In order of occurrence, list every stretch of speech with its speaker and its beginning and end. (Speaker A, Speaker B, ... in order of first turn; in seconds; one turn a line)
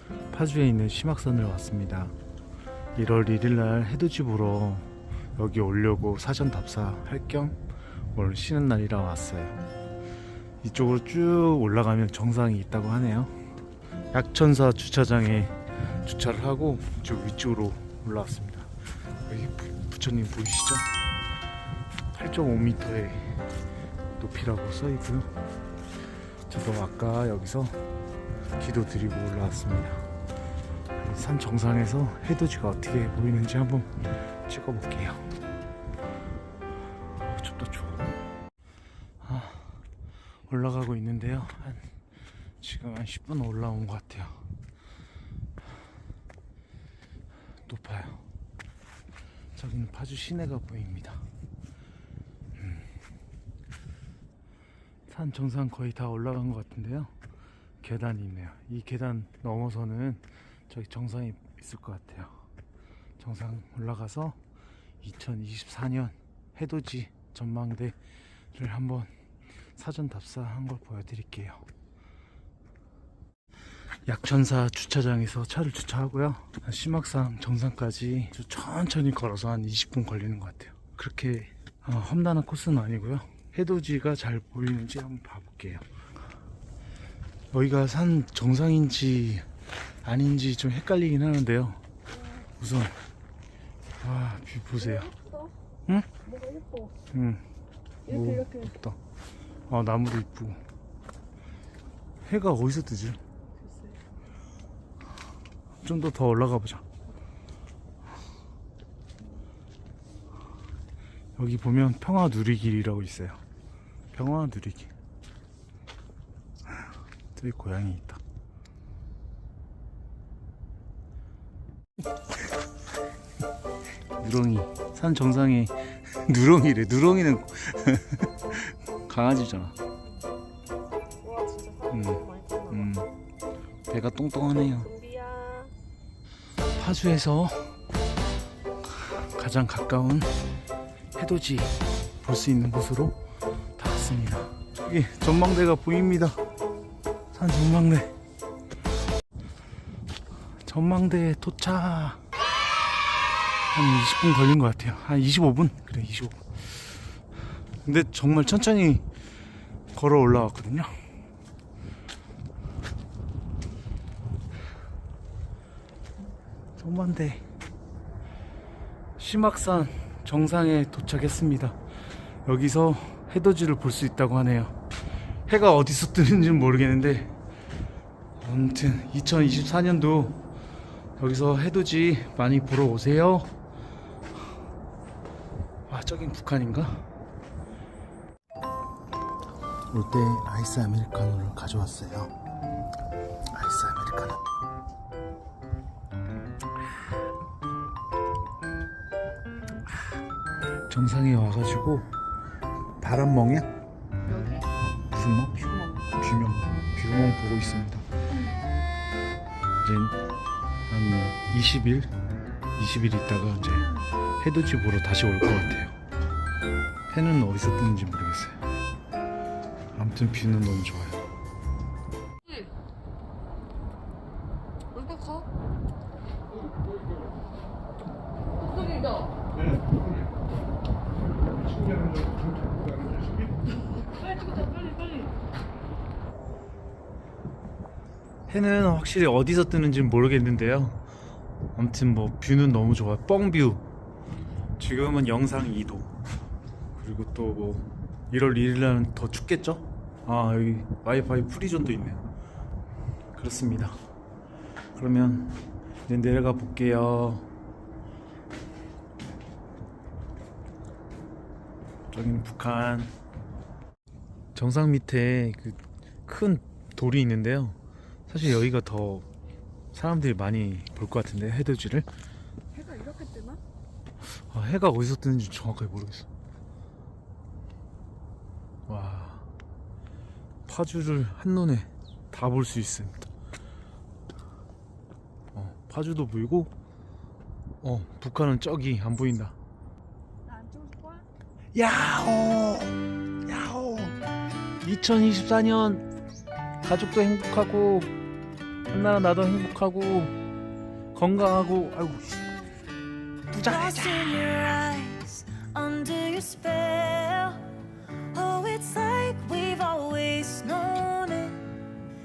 Speaker A: 0.3-2.1
Speaker A: 2.9-7.6
Speaker A: 8.1-9.6
Speaker A: 10.6-13.3
Speaker A: 14.1-18.7
Speaker A: 19.2-20.9
Speaker A: 22.1-23.4
Speaker A: 24.2-25.3
Speaker A: 26.5-27.8
Speaker A: 28.6-30.1
Speaker A: 30.9-35.2
Speaker A: 37.2-38.2
Speaker A: 39.2-39.8
Speaker A: 40.5-41.9
Speaker A: 42.6-44.4
Speaker A: 47.7-48.2
Speaker A: 49.5-51.2
Speaker A: 52.6-52.9
Speaker A: 55.1-57.1
Speaker A: 57.8-62.3
Speaker A: 63.2-64.4
Speaker A: 65.0-68.0
Speaker A: 68.5-69.1
Speaker A: 69.8-71.6
Speaker A: 74.0-85.8
Speaker A: 87.5-89.5
Speaker A: 90.0-91.8
Speaker A: 92.4-93.0
Speaker A: 94.0-95.1
Speaker B: 95.0-95.5
Speaker B: 96.2-97.0
Speaker A: 97.1-97.4
Speaker A: 98.1-99.0
Speaker B: 98.1-98.7
Speaker A: 99.7-100.6
Speaker A: 102.2-103.2
Speaker B: 103.6-104.0
Speaker A: 105.8-106.8
Speaker A: 111.4-113.4
Speaker A: 114.1-114.9
Speaker A: 117.3-118.2
Speaker A: 124.2-129.8
Speaker B: 131.2-132.9
Speaker A: 131.9-133.1
Speaker A: 133.9-134.9
Speaker B: 134.9-135.7
Speaker A: 136.8-137.8
Speaker A: 139.0-140.3
Speaker A: 141.1-143.2
Speaker A: 143.8-146.4
Speaker A: 147.3-148.1
Speaker A: 150.6-152.2
Speaker A: 153.7-157.1
Speaker A: 157.8-159.1
Speaker A: 159.9-160.9
Speaker A: 166.8-167.4
Speaker A: 169.2-171.8
Speaker A: 172.4-174.8
Speaker A: 175.5-177.4
Speaker A: 178.4-180.4
Speaker A: 181.2-183.5
Speaker A: 185.9-187.1
Speaker A: 189.9-192.3
Speaker A: 193.5-194.4
Speaker A: 200.9-202.1
Speaker A: 203.0-203.7
Speaker B: 204.3-204.6
Speaker A: 205.1-208.1
Speaker A: 209.8-210.2
Speaker A: 210.9-212.1
Speaker A: 212.8-216.0
Speaker A: 217.1-218.6
Speaker A: 219.9-221.2
Speaker B: 224.9-225.4
Speaker B: 228.7-229.3
Speaker B: 234.4-235.1
Speaker A: 238.5-241.0
Speaker A: 241.7-243.8
Speaker A: 244.8-246.1
Speaker A: 246.9-252.3
Speaker A: 253.3-254.0
Speaker A: 254.9-257.5
Speaker A: 262.1-263.1
Speaker A: 264.5-269.2
Speaker A: 269.9-272.1
Speaker B: 272.7-273.6
Speaker A: 274.3-276.3
Speaker A: 278.9-279.5
Speaker A: 280.6-283.3
Speaker A: 285.5-286.7
Speaker A: 287.8-289.6
Speaker B: 290.5-291.2
Speaker A: 291.7-294.1
Speaker A: 294.8-296.1
Speaker A: 296.8-298.1
Speaker A: 298.9-300.3
Speaker A: 301.1-302.5
Speaker A: 303.5-304.6
Speaker C: 303.6-307.7
Speaker C: 308.3-311.7